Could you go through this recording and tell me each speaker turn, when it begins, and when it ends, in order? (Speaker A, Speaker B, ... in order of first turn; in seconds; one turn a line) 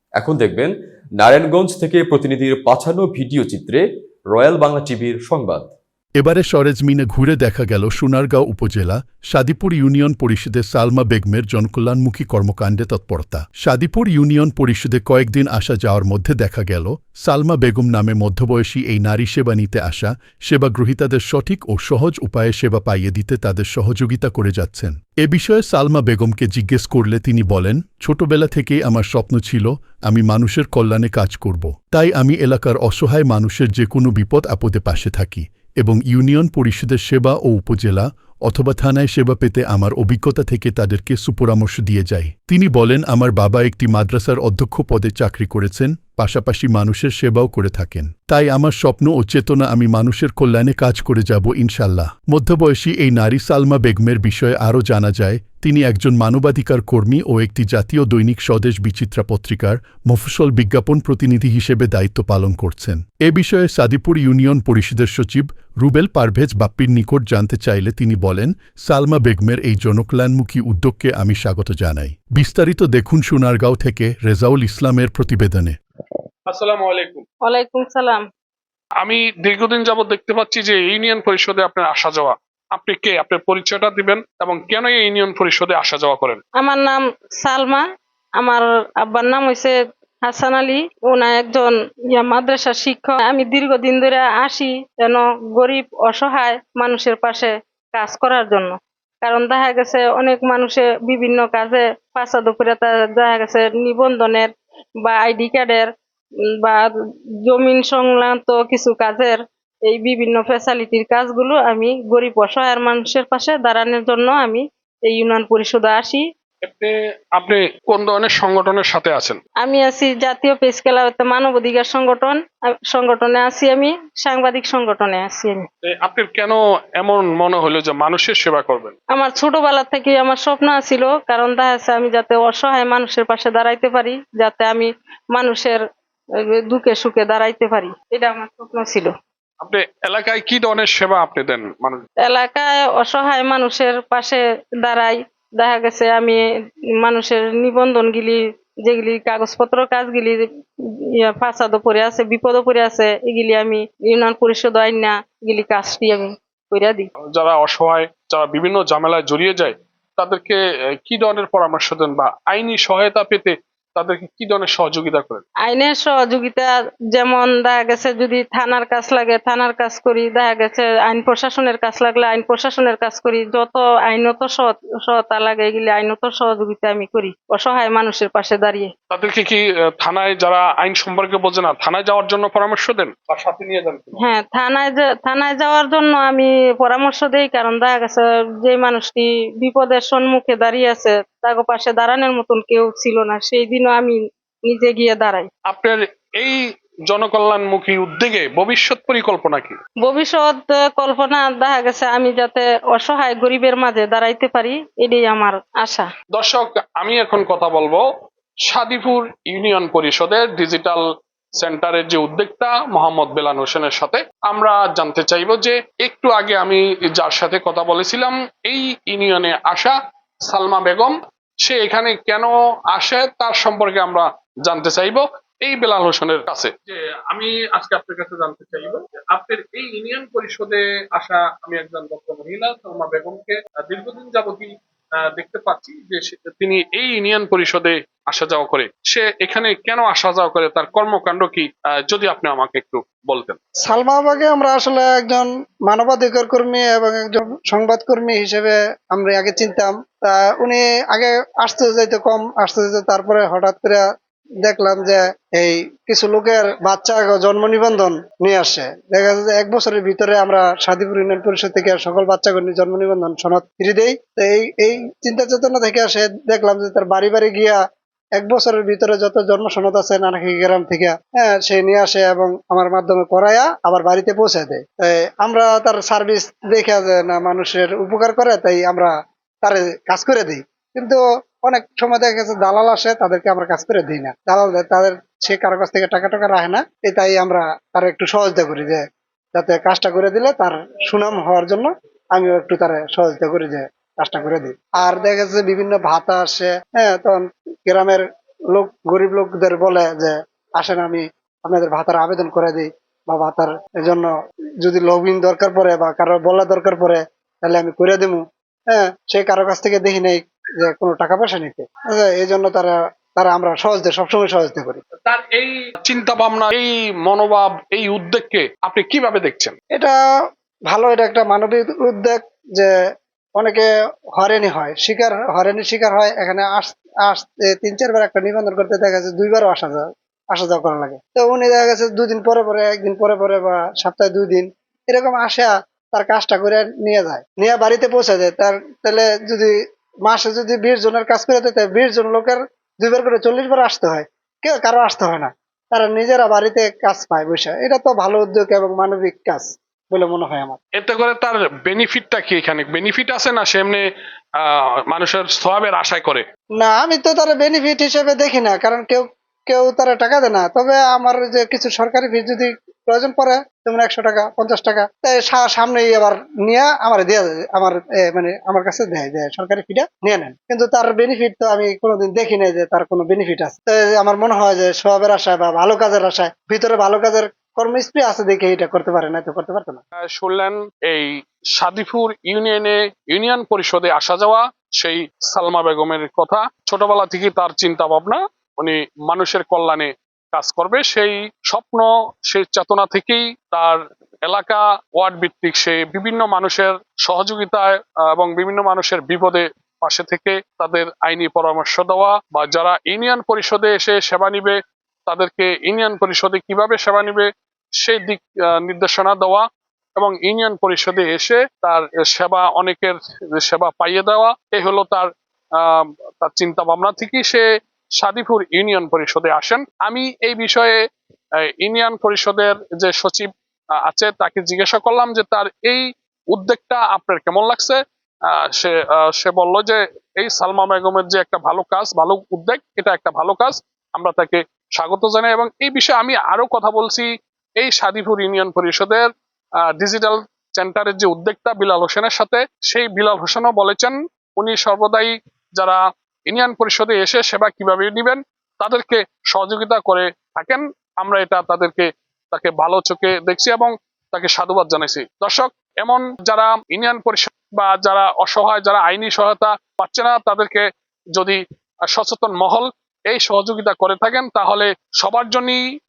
Speaker A: 0.1-5.7
Speaker B: 6.2-75.8
Speaker C: 76.5-77.2
Speaker D: 77.4-78.2
Speaker C: 79.0-86.4
Speaker D: 86.6-87.8
Speaker D: 88.4-104.5
Speaker D: 105.0-105.9
Speaker D: 106.6-106.9
Speaker D: 107.5-116.2
Speaker C: 116.6-119.4
Speaker D: 119.6-125.7
Speaker C: 125.8-129.0
Speaker D: 129.1-135.8
Speaker D: 136.7-139.1
Speaker C: 139.6-142.0
Speaker D: 142.2-146.4
Speaker D: 147.0-150.4
Speaker D: 151.2-157.1
Speaker C: 157.3-165.4
Speaker D: 165.6-178.9
Speaker C: 179.1-184.2
Speaker D: 184.2-195.5
Speaker C: 195.7-199.8
Speaker D: 200.0-206.1
Speaker C: 206.3-208.1
Speaker C: 208.7-211.1
Speaker C: 211.6-243.6
Speaker E: 243.8-254.0
Speaker E: 254.6-267.8
Speaker E: 268.4-279.1
Speaker E: 279.6-289.0
Speaker E: 289.5-304.3
Speaker E: 304.8-315.0
Speaker C: 315.3-319.8
Speaker E: 320.9-322.9
Speaker E: 323.6-339.7
Speaker E: 340.2-350.8
Speaker C: 351.0-354.1
Speaker C: 354.6-356.4
Speaker E: 356.8-380.0
Speaker C: 380.2-407.5
Speaker C: 408.0-417.6
Speaker C: 418.2-421.0
Speaker C: 421.8-423.5
Speaker C: 424.0-439.3
Speaker C: 439.9-465.8